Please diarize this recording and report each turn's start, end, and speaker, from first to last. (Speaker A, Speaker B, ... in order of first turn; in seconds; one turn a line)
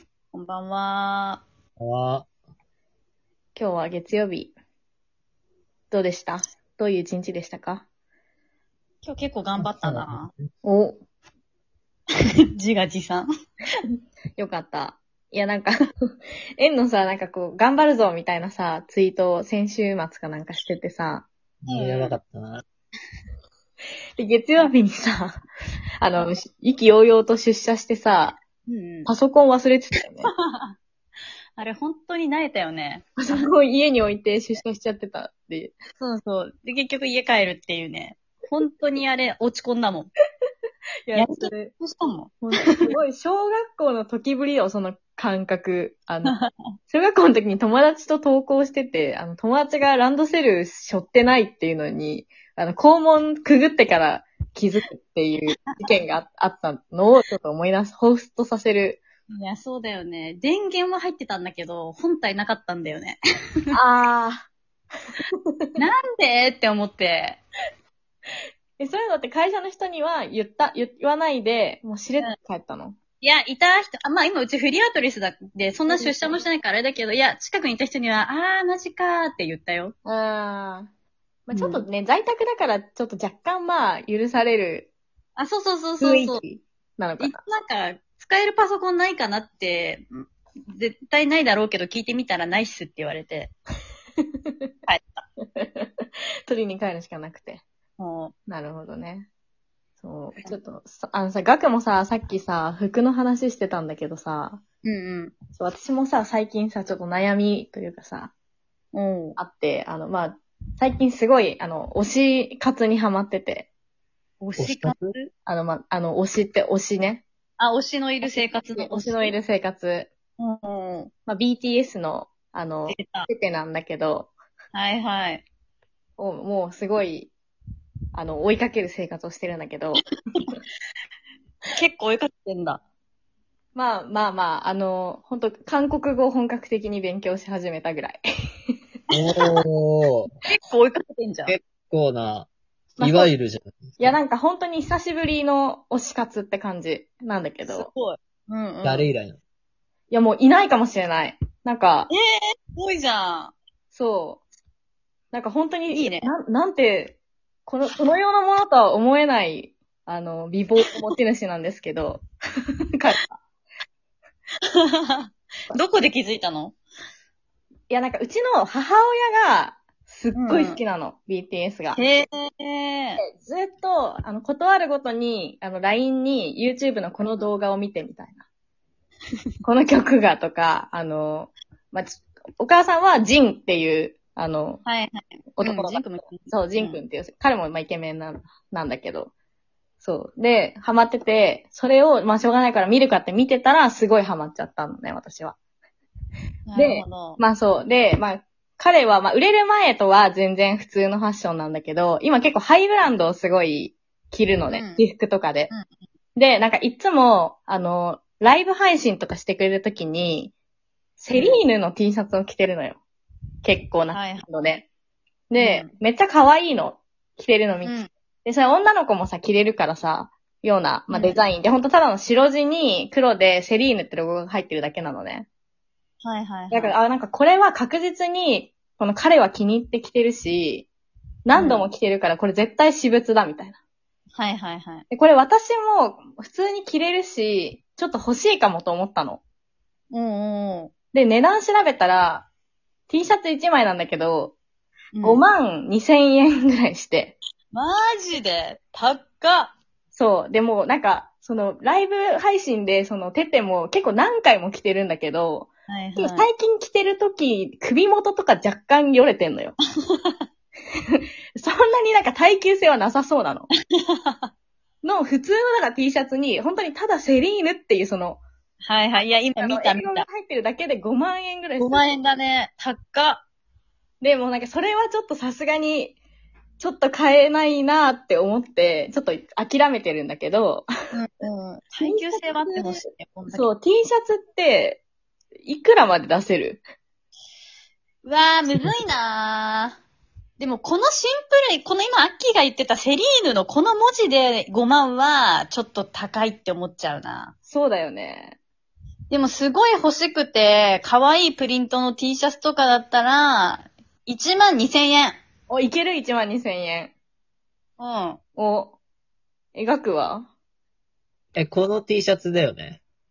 Speaker A: 0.3-1.4
Speaker B: 1.8-2.3
Speaker C: 3.5-4.5
Speaker C: 5.9-7.8
Speaker A: 9.0-10.3
Speaker B: 9.6-10.1
Speaker C: 10.6-11.0
Speaker A: 12.6-13.3
Speaker C: 14.4-15.7
Speaker C: 16.6-21.3
Speaker B: 21.7-22.6
Speaker A: 21.7-22.2
Speaker C: 24.2-25.4
Speaker C: 26.0-28.4
Speaker A: 28.7-29.1
Speaker C: 29.1-30.3
Speaker A: 31.6-33.5
Speaker C: 33.2-35.8
Speaker A: 36.0-40.1
Speaker C: 41.1-41.7
Speaker A: 41.1-43.0
Speaker C: 42.4-46.4
Speaker C: 46.9-59.0
Speaker A: 59.3-63.2
Speaker C: 63.7-64.5
Speaker C: 65.3-65.7
Speaker A: 65.8-67.4
Speaker C: 68.8-73.0
Speaker A: 73.2-80.0
Speaker C: 75.9-76.4
Speaker C: 80.1-80.9
Speaker C: 81.5-84.9
Speaker A: 81.5-81.8
Speaker A: 85.4-86.4
Speaker C: 86.0-87.4
Speaker A: 87.2-93.5
Speaker A: 94.9-95.2
Speaker C: 95.6-95.9
Speaker C: 96.5-97.6
Speaker A: 98.0-98.3
Speaker C: 98.5-99.3
Speaker C: 100.0-104.6
Speaker A: 104.8-105.3
Speaker C: 105.5-108.3
Speaker A: 108.9-109.4
Speaker C: 109.4-113.7
Speaker A: 114.4-115.3
Speaker B: 114.6-115.1
Speaker C: 115.5-117.2
Speaker A: 117.6-119.3
Speaker C: 118.3-120.1
Speaker A: 120.4-121.1
Speaker C: 121.3-124.3
Speaker A: 122.9-123.3
Speaker A: 124.7-125.4
Speaker C: 126.2-127.3
Speaker C: 128.1-130.6
Speaker A: 131.7-132.8
Speaker C: 133.8-138.2
Speaker A: 139.1-139.6
Speaker B: 139.1-140.3
Speaker A: 140.4-141.5
Speaker B: 141.5-142.5
Speaker C: 143.0-143.3
Speaker B: 143.0-144.2
Speaker C: 144.0-147.9
Speaker A: 147.7-149.1
Speaker B: 148.8-149.4
Speaker C: 150.1-152.1
Speaker A: 152.7-153.5
Speaker C: 153.9-154.4
Speaker C: 155.3-162.2
Speaker A: 155.9-156.3
Speaker C: 162.9-163.4
Speaker A: 164.9-166.8
Speaker C: 167.9-172.0
Speaker A: 170.4-170.8
Speaker A: 171.9-173.2
Speaker C: 173.2-178.4
Speaker C: 179.6-184.8
Speaker A: 184.8-187.0
Speaker C: 185.6-189.3
Speaker C: 190.0-195.6
Speaker A: 196.7-197.4
Speaker C: 196.8-205.7
Speaker A: 204.7-205.0
Speaker C: 206.3-210.5
Speaker C: 211.2-213.0
Speaker A: 211.3-211.6
Speaker C: 213.6-214.9
Speaker A: 214.1-214.5
Speaker C: 215.5-225.5
Speaker A: 215.6-215.9
Speaker A: 217.8-218.1
Speaker A: 221.1-221.4
Speaker A: 226.2-226.9
Speaker C: 226.7-230.9
Speaker C: 231.5-233.8
Speaker A: 231.6-231.9
Speaker A: 234.4-235.1
Speaker C: 235.1-239.4
Speaker A: 240.1-240.9
Speaker C: 241.1-242.5
Speaker C: 243.1-244.6
Speaker A: 245.2-245.4
Speaker C: 245.2-247.4
Speaker A: 247.7-249.7
Speaker C: 250.1-259.8
Speaker A: 255.9-256.5
Speaker C: 261.6-263.7
Speaker A: 264.2-264.5
Speaker C: 265.0-268.4
Speaker A: 268.9-270.3
Speaker C: 269.6-272.2
Speaker A: 271.8-273.4
Speaker C: 274.2-276.2
Speaker C: 276.8-280.9
Speaker A: 281.1-283.7
Speaker C: 282.0-285.0
Speaker C: 285.6-286.8
Speaker A: 288.2-290.0
Speaker A: 290.6-297.5
Speaker C: 297.6-298.6
Speaker A: 299.3-305.4
Speaker C: 305.7-307.1
Speaker A: 308.0-308.4
Speaker C: 308.6-309.0
Speaker C: 309.8-310.5
Speaker B: 311.6-313.0